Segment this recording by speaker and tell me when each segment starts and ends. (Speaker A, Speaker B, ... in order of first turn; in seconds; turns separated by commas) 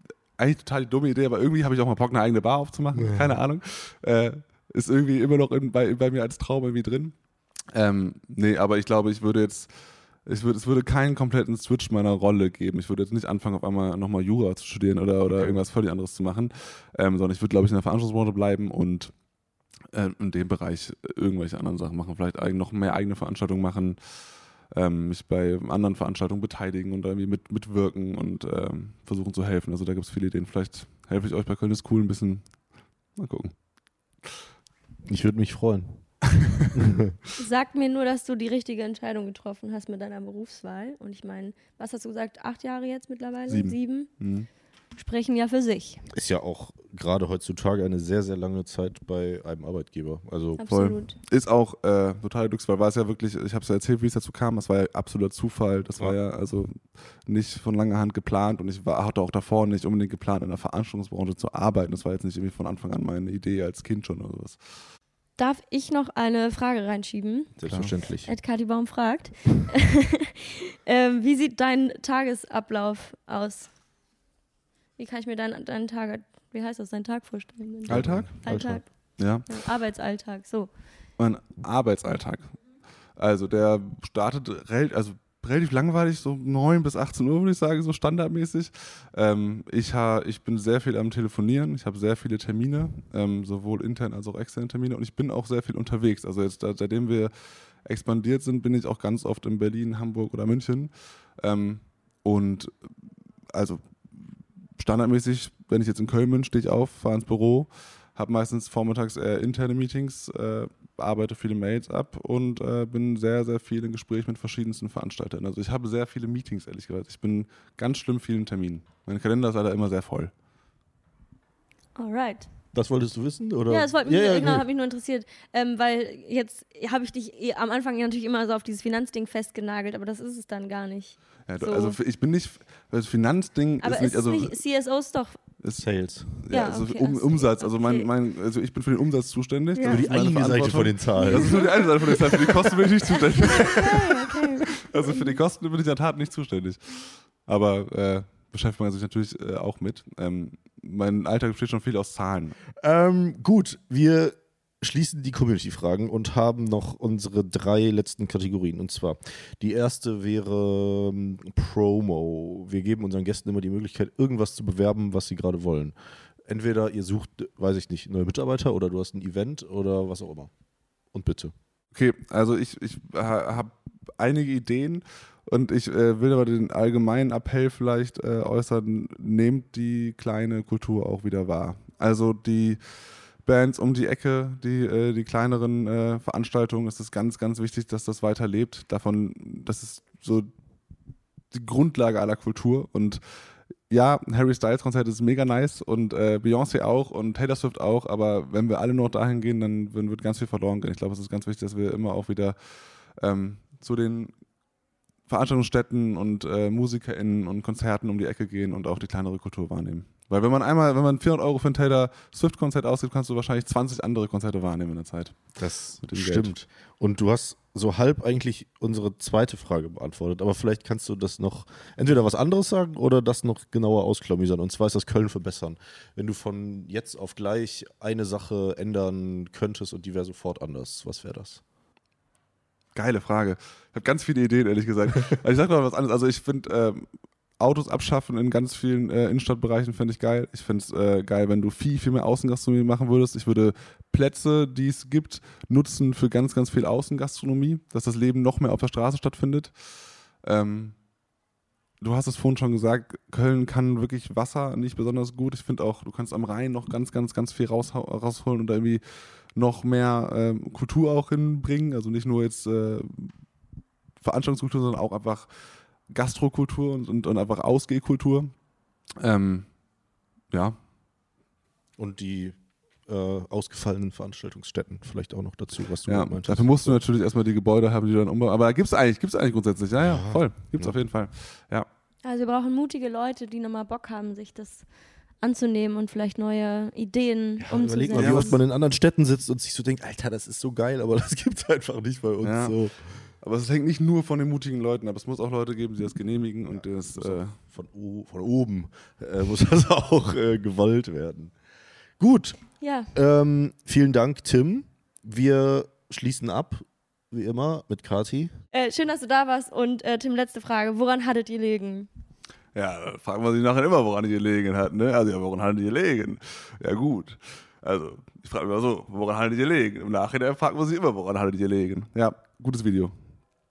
Speaker A: 0.4-7.1, Speaker B: 2.9-3.4, Speaker A: 7.7-19.1, Speaker B: 15.2-15.6, Speaker A: 19.9-32.5, Speaker A: 33.1-33.5, Speaker B: 35.1-36.0, Speaker A: 36.3-36.7, Speaker B: 36.7-37.2, Speaker C: 37.4-44.1, Speaker A: 43.5-44.5, Speaker C: 44.9-46.0, Speaker B: 46.1-50.6, Speaker C: 50.6-51.1, Speaker A: 50.7-64.8, Speaker C: 65.4-67.5, Speaker B: 67.6-68.3, Speaker A: 67.7-68.0, Speaker C: 68.2-73.7, Speaker C: 75.0-80.7, Speaker B: 77.8-78.9, Speaker A: 77.9-79.7, Speaker A: 81.2-97.3, Speaker A: 97.8-102.7, Speaker A: 103.5-104.2, Speaker A: 104.8-120.3, Speaker C: 122.0-122.5, Speaker B: 122.7-124.6, Speaker C: 123.7-131.9, Speaker A: 131.5-134.6, Speaker C: 133.8-135.4, Speaker A: 135.6-144.1, Speaker B: 135.8-136.3, Speaker C: 136.5-138.1, Speaker C: 139.7-140.1, Speaker B: 139.8-142.8, Speaker C: 141.2-142.5, Speaker C: 143.1-145.3, Speaker B: 143.4-144.0, Speaker A: 144.7-152.6, Speaker B: 152.8-170.5, Speaker B: 171.1-171.5, Speaker A: 171.9-190.5, Speaker A: 191.5-193.2, Speaker A: 193.9-202.6, Speaker A: 203.1-204.3, Speaker A: 205.3-216.5, Speaker B: 215.6-231.6, Speaker A: 232.9-237.1, Speaker A: 237.6-250.9, Speaker A: 252.0-259.0, Speaker A: 259.5-263.3, Speaker A: 264.2-265.5, Speaker A: 266.1-268.5, Speaker A: 269.2-269.7, Speaker A: 270.5-270.8, Speaker B: 272.0-277.0, Speaker A: 276.1-281.9, Speaker B: 280.0-280.9, Speaker C: 282.2-284.9, Speaker C: 285.4-288.6, Speaker B: 287.6-292.9, Speaker A: 288.1-288.5, Speaker A: 292.4-297.6, Speaker B: 296.7-301.5, Speaker B: 302.2-308.5, Speaker C: 302.8-303.1, Speaker C: 308.7-312.1, Speaker A: 312.7-323.1